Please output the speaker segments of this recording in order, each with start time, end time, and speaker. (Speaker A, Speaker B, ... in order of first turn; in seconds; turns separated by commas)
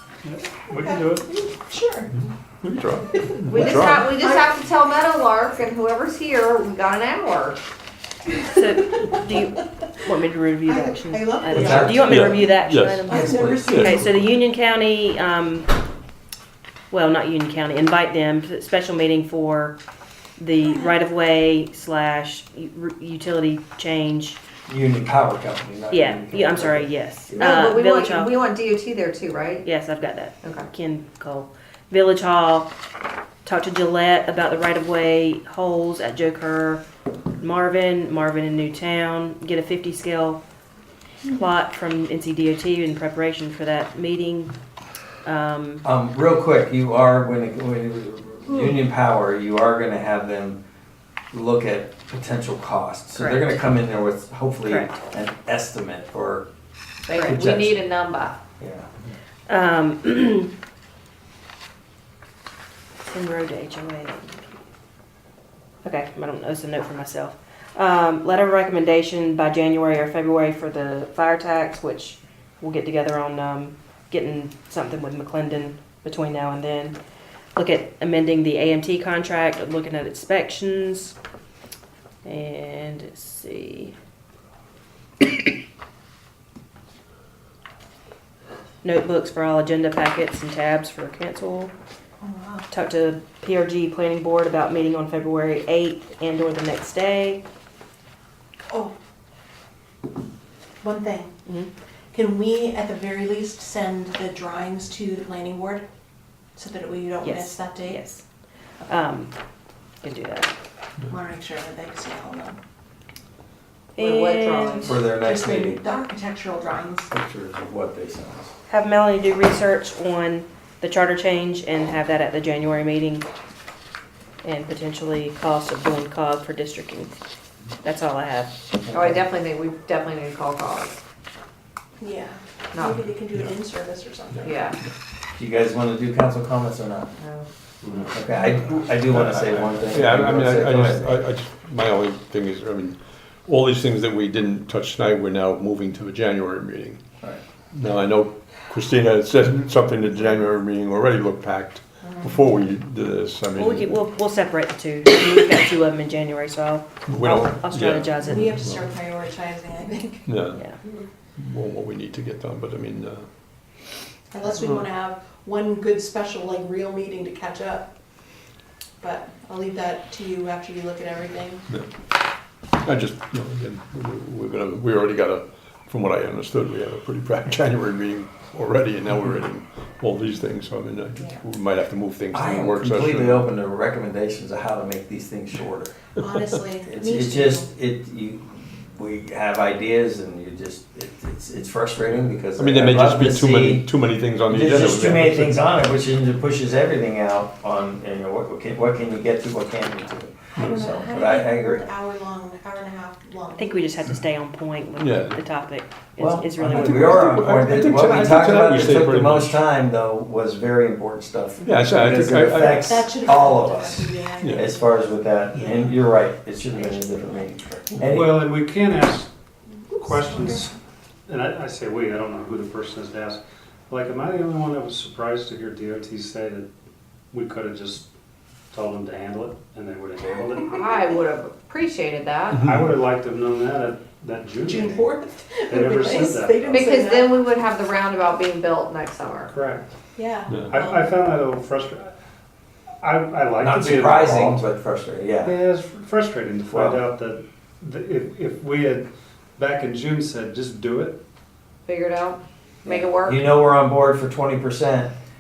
Speaker A: 0.2-1.3, Speaker B: 0.7-2.3, Speaker C: 2.6-4.1, Speaker B: 3.1-4.6, Speaker D: 3.5-7.6, Speaker E: 8.5-15.7, Speaker B: 10.7-12.2, Speaker F: 11.5-12.5, Speaker C: 12.0-14.0, Speaker B: 13.0-14.0, Speaker F: 13.1-14.2, Speaker E: 16.9-19.8, Speaker E: 20.4-24.4, Speaker F: 24.7-27.6, Speaker E: 25.9-28.4, Speaker D: 27.4-29.6, Speaker E: 29.6-32.7, Speaker D: 30.4-30.7, Speaker E: 33.5-36.8, Speaker E: 37.4-40.4, Speaker E: 41.3-44.5, Speaker E: 45.2-45.8, Speaker F: 45.8-50.6, Speaker F: 51.3-56.5, Speaker E: 53.1-53.6, Speaker E: 54.7-55.0, Speaker D: 57.1-58.4, Speaker E: 57.1-57.4, Speaker F: 57.2-57.8, Speaker F: 58.6-58.9, Speaker E: 59.5-60.5, Speaker E: 63.0-64.6, Speaker E: 65.8-77.0, Speaker E: 77.6-81.2, Speaker E: 82.2-83.9, Speaker E: 88.8-91.7, Speaker B: 92.2-92.7, Speaker E: 92.7-97.4, Speaker B: 98.7-98.9, Speaker B: 100.8-101.3, Speaker B: 102.1-105.8, Speaker B: 106.6-108.0, Speaker E: 107.2-108.2, Speaker E: 108.9-109.3, Speaker E: 110.0-110.5, Speaker B: 111.1-112.6, Speaker E: 114.0-114.9, Speaker D: 114.0-114.9, Speaker F: 114.8-115.8, Speaker B: 114.9-117.1, Speaker F: 117.1-118.5, Speaker E: 118.7-123.2, Speaker E: 124.4-127.1, Speaker E: 127.8-128.5, Speaker F: 128.9-129.2, Speaker D: 128.9-131.0, Speaker B: 132.0-134.7, Speaker D: 132.7-133.1, Speaker D: 134.4-134.8, Speaker F: 135.4-137.1, Speaker D: 137.2-137.5, Speaker A: 137.8-138.1, Speaker F: 138.1-141.2, Speaker A: 139.1-140.0, Speaker C: 139.9-147.0, Speaker C: 147.7-154.0, Speaker B: 152.0-152.4, Speaker E: 153.6-158.5, Speaker C: 157.1-158.9, Speaker B: 158.2-160.3, Speaker C: 160.2-160.6, Speaker C: 161.4-163.2, Speaker B: 164.3-167.9, Speaker B: 169.0-171.7, Speaker C: 172.8-183.5, Speaker F: 182.3-186.0, Speaker B: 186.2-187.7, Speaker C: 186.2-186.6, Speaker F: 186.8-193.9, Speaker C: 192.6-195.6, Speaker F: 194.5-201.9, Speaker B: 200.6-204.1, Speaker E: 203.6-207.3, Speaker C: 205.0-205.4, Speaker F: 206.2-218.4, Speaker C: 206.7-209.6, Speaker C: 211.6-212.9, Speaker B: 212.7-216.0, Speaker C: 214.4-214.7, Speaker B: 216.8-217.3, Speaker A: 218.0-219.3, Speaker A: 219.9-220.8, Speaker B: 220.1-220.7, Speaker A: 221.3-226.7, Speaker A: 227.3-228.1, Speaker A: 228.7-231.0, Speaker D: 230.7-232.6, Speaker A: 232.5-235.1, Speaker B: 234.6-237.5, Speaker A: 235.7-236.9, Speaker D: 236.1-239.5, Speaker A: 239.5-239.9, Speaker B: 240.2-241.2, Speaker A: 240.6-242.1, Speaker A: 243.0-244.6, Speaker F: 243.6-245.6, Speaker A: 245.4-249.1, Speaker F: 246.7-247.0, Speaker A: 249.6-251.2, Speaker D: 251.8-253.6, Speaker F: 252.8-255.1